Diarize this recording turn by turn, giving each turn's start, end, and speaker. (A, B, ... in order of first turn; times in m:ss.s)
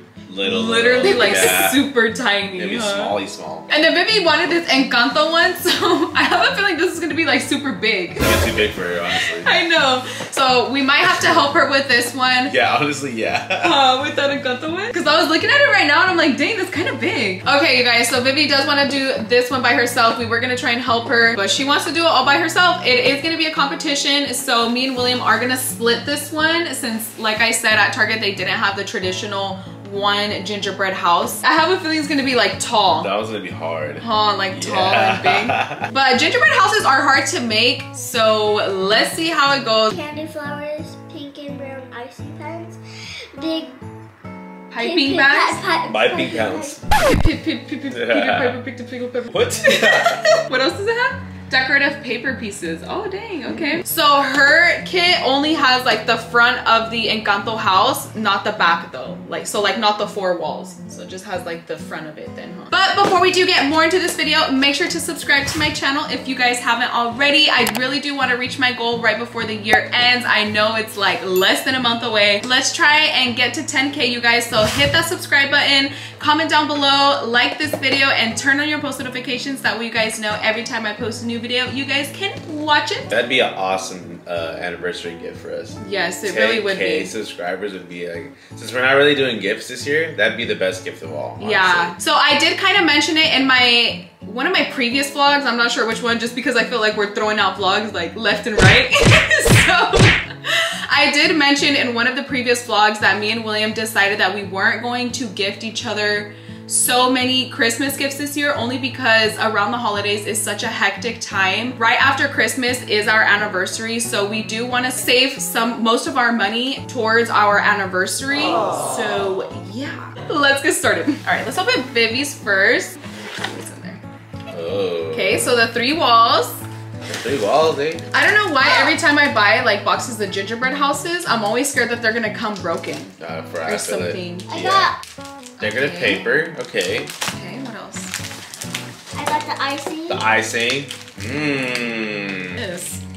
0:00.3-0:01.8 A
0:00.4-0:03.2 B
0:02.6-0:03.7 A
0:03.7-0:12.6 B
0:08.2-0:09.5 A
0:12.5-0:13.8 A
0:13.6-0:33.1 B
0:33.0-0:35.9 A
0:34.0-0:39.9 B
0:39.9-0:42.8 C
0:43.4-0:43.8 C
0:44.7-0:45.7 B
0:44.8-0:46.8 C
0:45.9-0:46.8 A
0:47.0-1:23.1 B
0:47.9-0:48.6 A
0:49.3-0:50.4 A
1:23.1-1:32.0 A
1:25.8-1:27.1 B
1:31.4-2:04.0 B
2:04.5-2:05.4 A
2:05.1-2:06.6 B
2:07.1-2:08.0 A
2:08.1-2:14.5 B
2:08.6-2:08.9 C
2:13.2-2:14.9 A
2:14.5-2:15.0 C
2:15.6-2:16.3 B
2:15.6-2:17.1 A
2:17.3-2:18.2 B
2:19.1-2:20.3 C
2:20.1-2:22.6 A
2:22.6-2:23.0 B